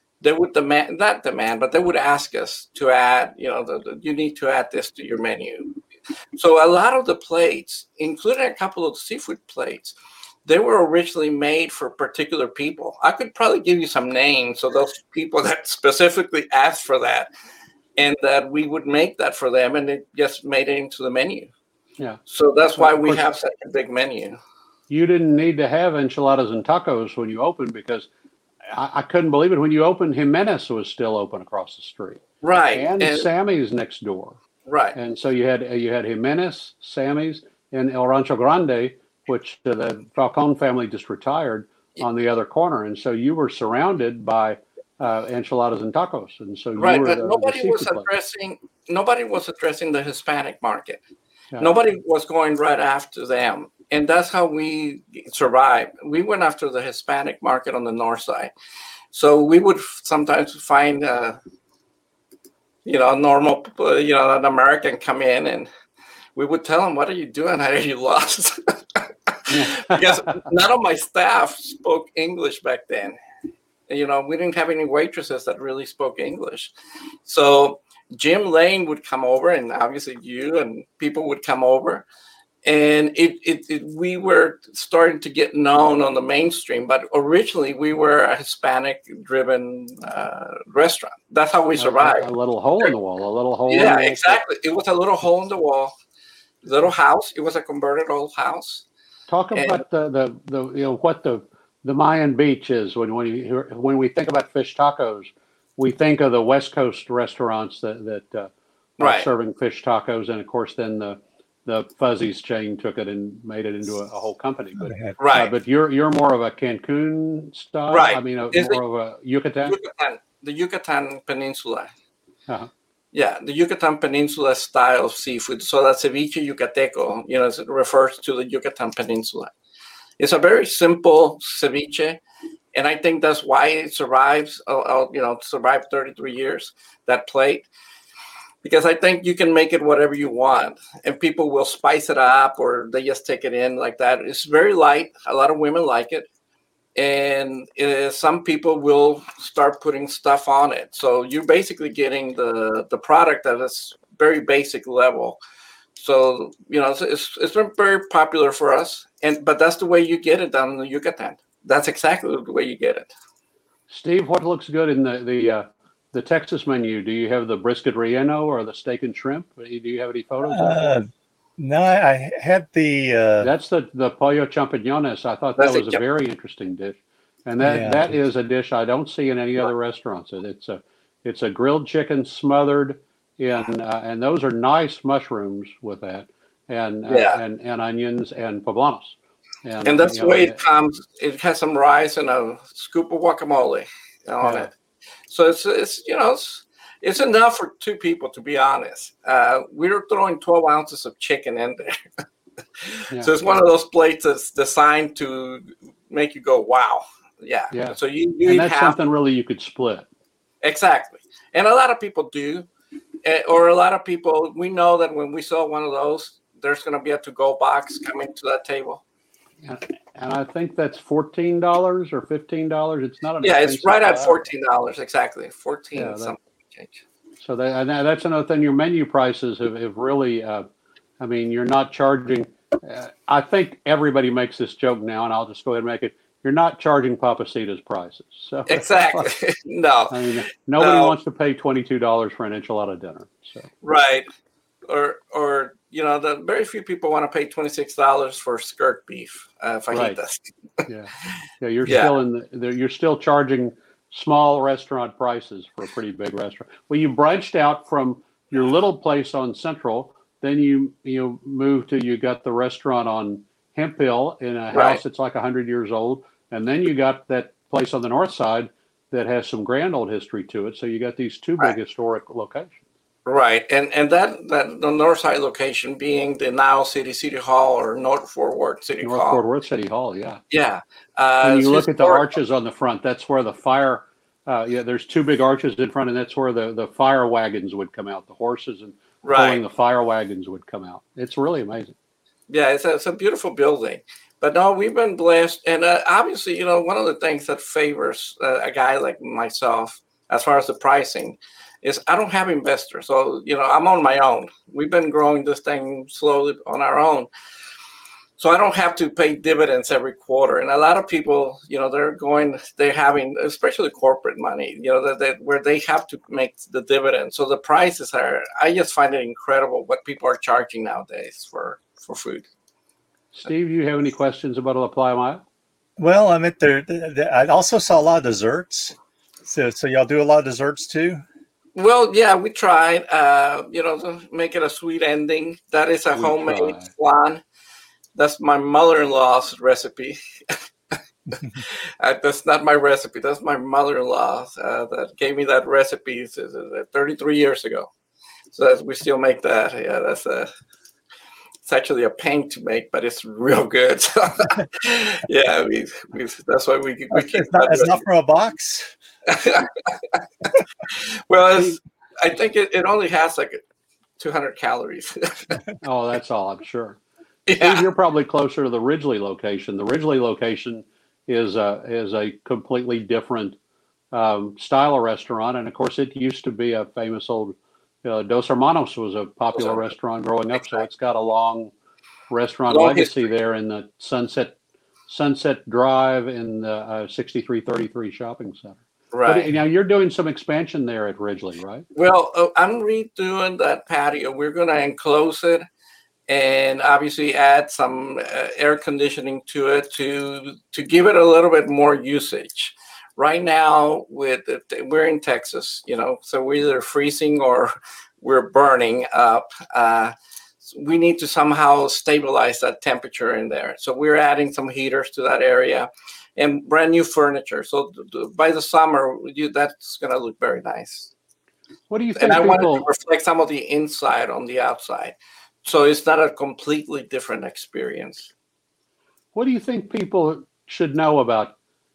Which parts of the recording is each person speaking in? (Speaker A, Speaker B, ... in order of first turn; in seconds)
Speaker A: 0.2-5.8, 6.4-9.9, 10.5-17.3, 18.0-21.5, 22.3-24.4, 32.4-33.3, 34.7-35.0, 46.8-51.0, 51.6-58.5, 59.1-61.4, 62.9-65.7, 66.4-73.2, 73.9-76.7, 77.3-82.1, 82.7-92.3, 93.7-95.9, 96.6-98.8, 99.5-99.8, 109.0-109.3, 115.2-115.5, 117.9-118.8, 119.7-121.9, 123.1-129.5, 130.2-132.2, 132.7-137.7, 138.6-146.3, 147.0-155.4, 156.0-163.1, 175.6-176.0, 187.1-187.4, 189.8-194.7, 195.3-201.9, 202.8-209.0, 210.6-212.7, 213.2-219.0, 223.4-227.0, 238.7-241.2, 243.8-244.3, 244.9-250.9, 251.8-252.2, 264.7-265.0, 273.3-279.4, 280.5-282.4, 289.2-289.6, 292.5-307.3, 308.4-322.4, 331.8-337.4, 338.2-340.6, 341.4-347.9, 348.5-350.5, 351.7-358.0, 359.3-363.6, 364.2-365.6, 367.5-367.9, 379.6-379.9, 382.7-383.2, 389.1-389.5, 391.9-395.6, 396.3-410.1, 410.6-421.1, 422.2-428.3
Speaker B: 22.8-23.2, 24.9-28.1, 28.7-32.2, 32.8-34.4, 35.0-48.1, 69.5-70.4, 91.8-94.4, 99.3-119.8, 163.9-170.9, 173.4-190.6, 194.4-194.7, 207.7-210.1, 219.6-224.5, 225.9-226.3, 227.4-230.7, 231.2-239.3, 240.1-243.7, 249.9-250.2, 250.9-272.8, 279.0-280.4, 281.4-291.9, 323.3-325.4, 336.1-336.9, 365.8-367.0, 367.6-373.6, 374.1-381.7, 382.3-384.6, 385.1-391.9, 421.9-422.9, 429.4-431.6
Speaker C: 114.8-115.2, 170.5-171.1, 171.6-173.5, 177.6-178.1, 326.0-331.2, 357.1-358.9